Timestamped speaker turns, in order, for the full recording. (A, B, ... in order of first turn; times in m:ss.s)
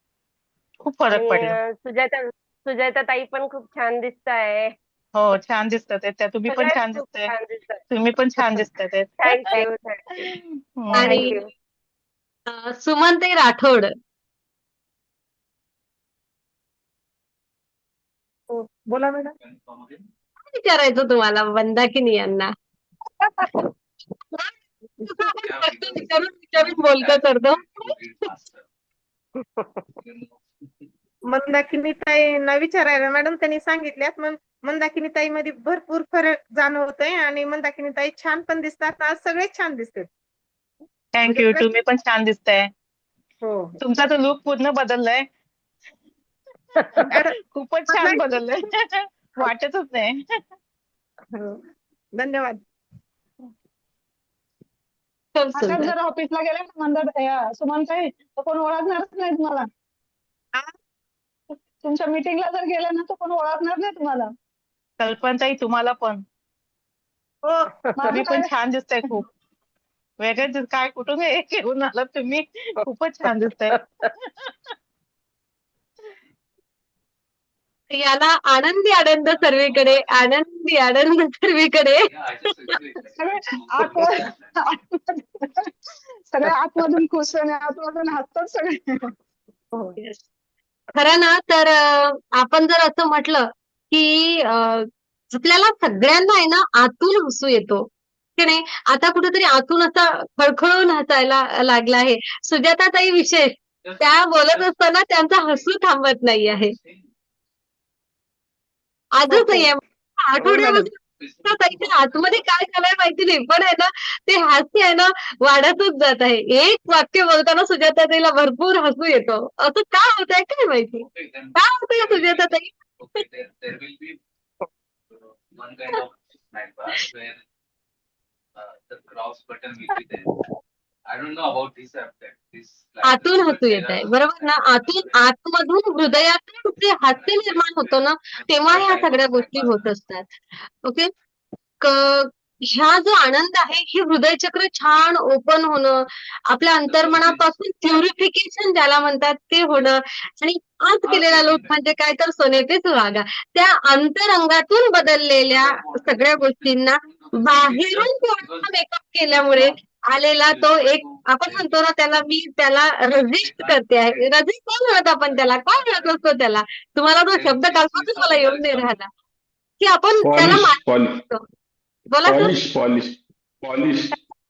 0:00.8-0:01.6 A
0:01.1-0:04.7 B
0:05.2-0:07.3 A
0:06.5-0:07.8 B
0:07.9-0:09.4 A
0:09.2-0:10.4 B
0:10.2-0:11.3 A
0:10.9-0:11.3 C
0:11.0-0:11.5 B
0:12.5-0:13.9 C
0:19.4-0:20.1 D
0:20.5-0:22.5 C
0:24.3-0:27.9 C
0:25.4-0:28.6 D
0:30.0-0:30.3 D
0:31.3-0:40.1 E
0:41.1-0:42.7 A
0:41.3-0:41.7 E
0:43.4-0:43.8 E
0:43.8-0:45.3 A
0:47.0-0:47.4 E
0:47.4-0:50.4 A
0:47.9-0:48.2 E
0:51.3-0:51.6 E
0:52.2-0:52.6 E
0:55.4-0:55.9 C
0:55.6-0:59.6 F
1:01.8-1:04.3 F
1:05.0-1:06.2 A
1:07.5-1:07.8 E
1:08.0-1:08.5 F
1:08.1-1:09.3 A
1:10.2-1:14.5 A
1:17.9-1:22.1 C
1:19.3-1:20.2 D
1:22.1-1:24.6 D
1:23.2-1:25.7 F
1:26.3-1:29.1 F
1:31.0-1:46.7 C
1:43.8-1:45.7 D
1:46.4-1:47.1 D
1:49.1-1:50.9 C
1:51.1-1:52.4 D
1:51.4-2:03.2 C
2:01.1-2:04.2 D
2:05.1-2:07.4 D
2:08.6-2:10.3 D
2:11.1-2:15.2 D
2:13.0-2:21.1 C
2:17.1-2:19.9 D
2:21.8-2:49.1 C
2:26.8-2:28.0 D
2:31.0-2:31.7 D
2:35.5-2:38.7 D
2:39.3-2:39.8 D
2:40.5-2:41.7 D
2:43.4-2:44.3 D
2:45.3-2:46.2 D
2:47.3-2:48.9 D
2:49.8-2:51.4 C
2:50.2-2:51.2 G
2:52.1-2:52.5 C
2:52.2-2:54.2 G